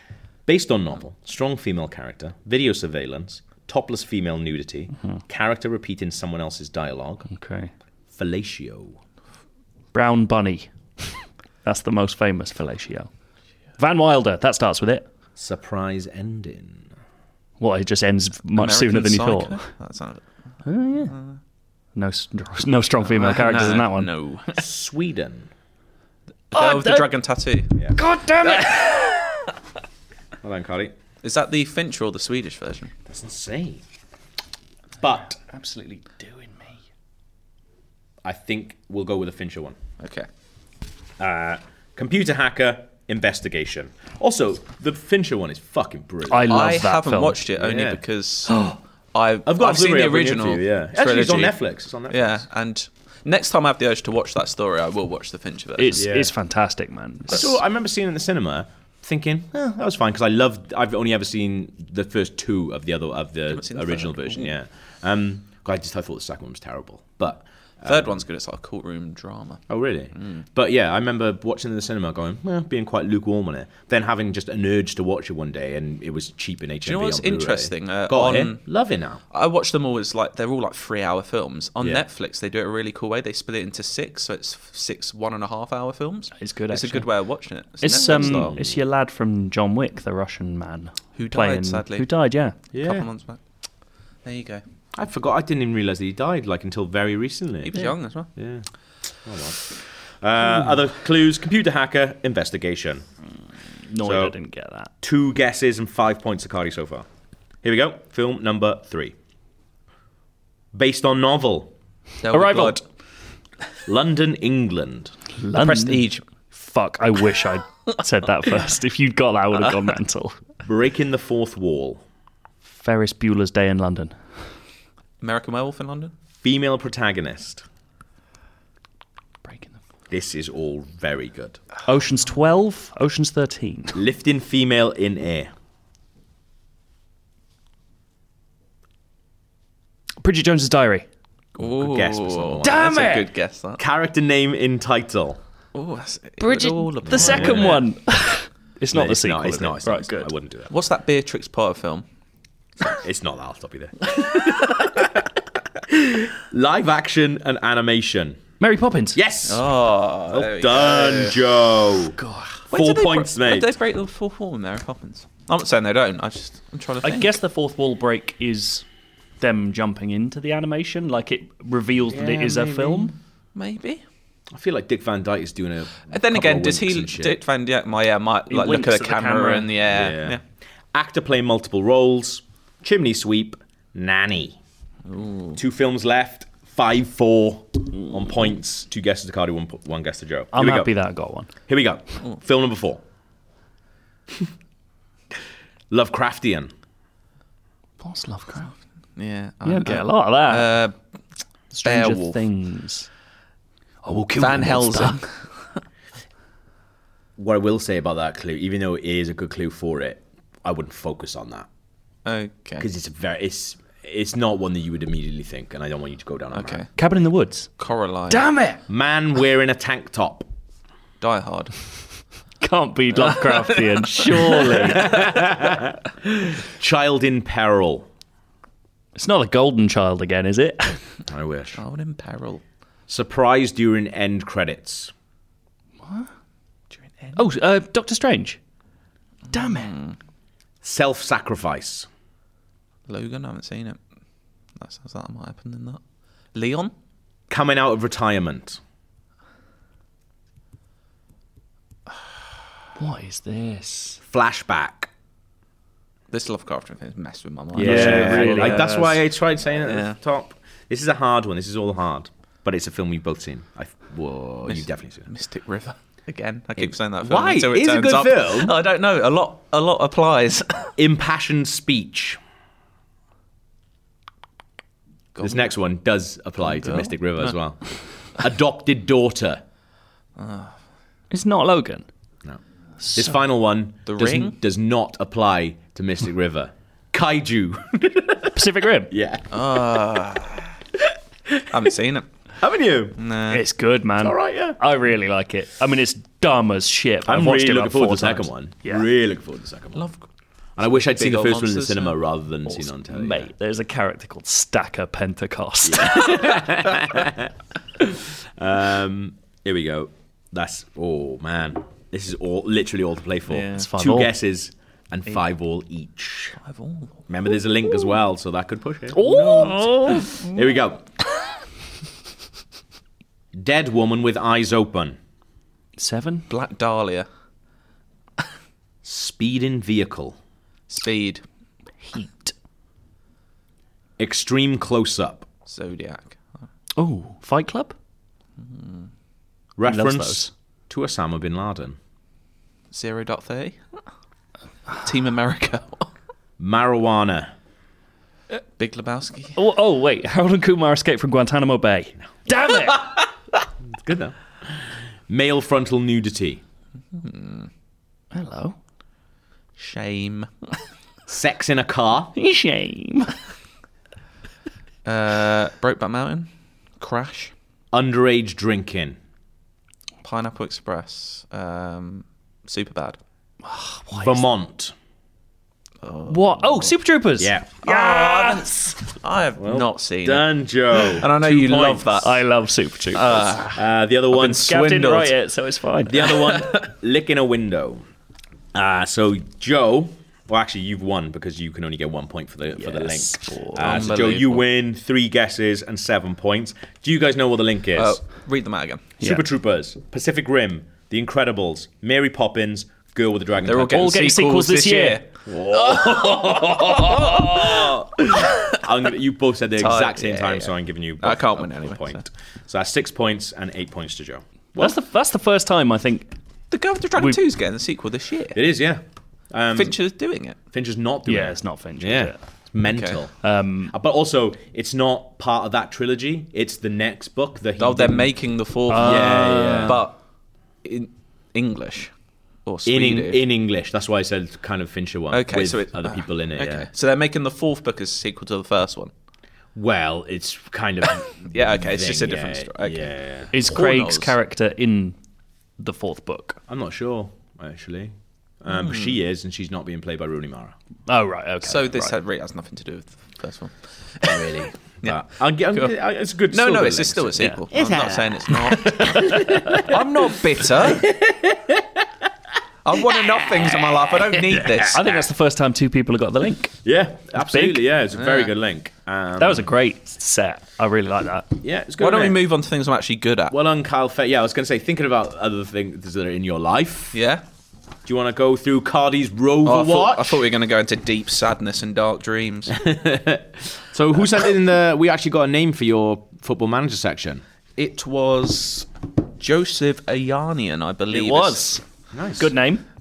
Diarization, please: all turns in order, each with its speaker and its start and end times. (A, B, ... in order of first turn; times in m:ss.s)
0:00.5-0:07.3 A
0:07.3-0:07.7 B
0:08.1-0:09.0 A
0:09.9-0:13.1 B
0:13.8-0:15.1 B
0:15.4-0:16.9 A
0:17.6-0:19.7 B
0:18.6-0:20.2 C
0:20.6-0:21.1 B
0:21.0-0:21.4 C
0:22.0-0:24.1 B
0:23.1-0:24.6 C
0:24.6-0:25.5 A
0:26.5-0:27.1 B
0:26.5-0:27.7 C
0:28.0-0:29.3 B
0:28.5-0:29.0 C
0:30.4-0:30.9 A
0:31.2-0:32.9 C
0:33.1-0:33.8 A
0:35.0-0:35.4 A
0:35.5-0:36.8 B
0:38.2-0:39.8 A
0:40.0-0:40.3 C
0:41.2-0:46.8 A
0:46.3-0:47.4 B
0:46.5-0:48.6 C
0:47.6-0:48.0 A
0:49.1-0:56.1 C
0:49.5-0:52.4 A
0:55.8-0:57.5 B
0:56.0-0:56.3 A
0:57.3-1:08.2 A
1:03.5-1:04.5 C
1:07.8-1:09.6 C
1:09.7-1:19.2 A
1:10.2-1:10.4 C
1:16.8-1:18.7 C
1:19.3-1:28.6 C
1:26.4-1:27.1 B
1:27.8-1:32.6 B
1:27.9-1:28.8 A
1:31.2-1:32.1 C
1:32.7-1:33.4 C
1:32.7-1:33.1 A
1:34.2-1:34.6 C
1:35.0-1:37.8 A
1:37.6-1:38.3 C
1:38.4-1:38.7 A
1:39.2-1:43.0 A
1:43.9-1:44.9 B
1:44.0-1:44.4 A
1:45.0-1:47.1 A
1:47.6-1:49.2 A
1:50.7-1:51.7 A
1:52.2-1:52.8 C
1:52.3-1:52.8 B
1:53.9-1:55.1 A
1:55.4-2:00.4 B
1:55.6-1:56.2 C
2:00.6-2:02.0 A
2:02.8-2:04.2 B
2:05.2-2:06.1 C
2:06.4-2:07.6 A
2:09.5-2:09.8 B
2:10.1-2:11.6 A
2:11.9-2:14.0 B
2:13.9-2:15.5 A
2:20.2-2:21.1 B
2:21.6-2:23.0 A
2:21.6-2:23.8 C
2:22.6-2:23.3 B
2:23.8-2:25.4 A
2:25.7-2:27.9 C
2:26.4-2:30.3 B
2:27.1-2:27.8 A
2:28.9-2:30.7 A
2:30.7-2:32.0 C
2:32.8-2:35.3 A
2:35.9-2:38.4 A
2:38.6-2:39.2 B
2:39.1-2:39.7 A
2:39.5-2:41.4 C
2:40.3-2:42.2 A
2:42.2-2:42.6 B
2:42.7-2:43.7 A
2:42.7-2:47.4 C
2:47.0-2:48.8 B
2:49.4-2:53.2 B
2:52.1-2:53.1 A
2:53.6-2:54.0 C
2:54.5-2:57.4 A
2:56.1-3:00.4 C
2:58.5-2:59.7 B
2:59.9-3:00.4 A
3:00.9-3:04.6 A
3:05.1-3:05.6 C
3:05.6-3:10.9 A
3:10.5-3:11.5 B
3:11.7-3:13.0 A
3:15.9-3:16.7 A
3:18.0-3:18.7 B
3:19.2-3:21.0 C
3:19.6-3:20.7 B
3:21.7-3:23.1 B
3:21.8-3:22.4 C
3:24.0-3:25.2 B
3:24.4-3:25.5 C
3:27.4-3:31.7 A
3:32.2-3:32.8 C
3:32.8-3:36.8 A
3:36.5-3:36.9 C
3:37.0-3:37.7 B
3:37.8-3:38.5 C
3:38.3-3:38.8 B
3:38.9-3:40.5 A
3:41.2-3:41.7 C
3:42.6-3:45.1 B
3:43.4-3:45.1 C
3:45.0-3:48.1 A
3:49.2-3:51.0 B
3:51.3-3:51.8 A
3:51.8-3:52.6 C
3:53.1-3:55.1 A
3:56.0-3:56.3 B
3:57.0-3:57.4 C
3:57.4-3:58.6 B
3:59.5-3:59.9 B
3:59.5-4:00.2 C
4:00.8-4:02.1 A
4:03.1-4:04.0 C
4:04.8-4:06.0 C
4:06.5-4:06.9 C
4:07.5-4:08.8 A
4:13.0-4:14.2 B
4:14.2-4:15.1 A
4:16.3-4:19.2 C
4:17.7-4:25.3 A
4:17.8-4:19.1 B
4:19.8-4:20.2 C
4:24.7-4:30.9 C
4:26.8-4:28.8 A
4:31.0-4:32.4 A
4:35.4-4:35.7 C
4:35.4-4:37.8 A
4:36.6-4:37.6 C
4:38.4-4:39.6 A
4:40.4-4:40.7 C
4:41.3-4:42.1 B
4:43.0-4:43.3 B
4:43.1-4:48.5 A
4:44.1-4:44.6 C
4:48.6-4:49.1 B
4:49.1-4:49.6 A
4:49.5-4:50.7 C
4:51.7-4:52.3 C
4:52.6-4:53.2 A
4:53.2-4:53.6 C
4:53.5-4:59.0 B
4:54.2-4:54.8 A
4:57.3-5:00.1 A
5:00.0-5:00.2 C
5:00.8-5:03.5 A
5:00.9-5:02.2 C
5:02.7-5:06.5 B
5:05.8-5:16.6 A
5:13.5-5:13.8 C
5:13.8-5:14.3 B
5:16.6-5:17.2 C
5:17.3-5:21.1 A
5:19.1-5:20.4 B
5:19.5-5:20.2 C
5:23.5-5:25.2 A
5:26.0-5:26.5 B
5:26.5-5:27.3 C
5:29.0-5:30.4 A
5:30.9-5:31.4 C
5:32.0-5:32.5 B
5:34.2-5:35.5 A
5:35.7-5:36.4 C
5:37.0-5:38.0 B
5:38.6-5:39.1 C
5:39.8-5:42.0 A
5:39.9-5:40.5 B
5:42.9-5:43.8 C
5:45.0-5:46.1 C
5:46.6-5:47.5 A
5:48.8-5:49.6 C
5:49.6-5:53.2 B
5:53.9-5:56.6 A
5:57.2-5:57.7 C
5:58.3-5:58.8 B
5:59.8-6:00.5 C
6:01.3-6:02.3 A
6:02.4-6:03.3 B
6:05.0-6:07.5 C
6:07.9-6:09.2 A
6:10.2-6:13.2 C
6:13.6-6:14.4 B
6:14.1-6:14.9 A
6:16.0-6:16.9 C
6:16.3-6:18.9 B
6:17.4-6:17.7 A
6:17.8-6:22.4 C
6:19.6-6:22.2 A
6:22.2-6:23.7 B
6:23.1-6:23.8 C
6:23.8-6:25.1 A
6:24.3-6:25.3 C
6:24.4-6:26.3 B
6:26.1-6:28.0 A
6:28.7-6:38.2 A
6:32.8-6:33.9 B
6:33.8-6:34.7 C
6:38.0-6:39.1 C
6:39.2-6:44.1 A
6:43.6-6:47.9 C
6:43.9-6:45.2 B
6:45.5-6:55.0 A
6:48.4-6:48.7 C
6:49.8-6:52.2 C
6:54.8-6:56.3 B
6:56.7-6:58.6 C
6:58.5-7:00.0 A
6:59.7-7:00.6 C
7:00.7-7:03.3 A
7:01.3-7:02.4 B
7:02.8-7:03.2 C
7:03.4-7:03.9 B
7:03.9-7:08.3 A
7:07.8-7:10.2 C
7:08.9-7:10.0 B
7:08.9-7:10.0 A
7:10.8-7:12.1 C
7:12.6-7:13.4 C
7:12.9-7:16.9 A
7:15.3-7:19.1 C
7:19.8-7:23.5 A
7:21.5-7:24.4 C
7:23.5-7:25.2 B
7:25.8-7:26.6 B
7:26.7-7:30.8 A
7:28.7-7:29.2 C
7:31.1-7:32.2 B
7:31.6-7:36.0 C
7:34.2-7:40.0 A
7:36.5-7:41.1 C
7:38.7-7:39.9 B
7:40.8-7:42.0 A
7:42.8-7:45.2 C
7:43.0-7:44.9 A
7:44.8-7:46.8 B
7:46.8-7:49.7 A
7:47.4-7:47.8 B
7:48.2-7:48.5 C
7:49.4-7:51.5 B
7:51.6-7:52.4 A
7:52.0-7:53.6 C
7:53.5-7:57.2 A
7:57.1-7:57.4 C
7:58.0-8:00.4 A
7:59.6-8:02.8 C
8:02.7-8:07.4 A
8:07.8-8:08.9 C
8:09.4-8:11.7 C
8:11.1-8:11.8 B
8:12.1-8:12.5 A
8:12.4-8:12.8 B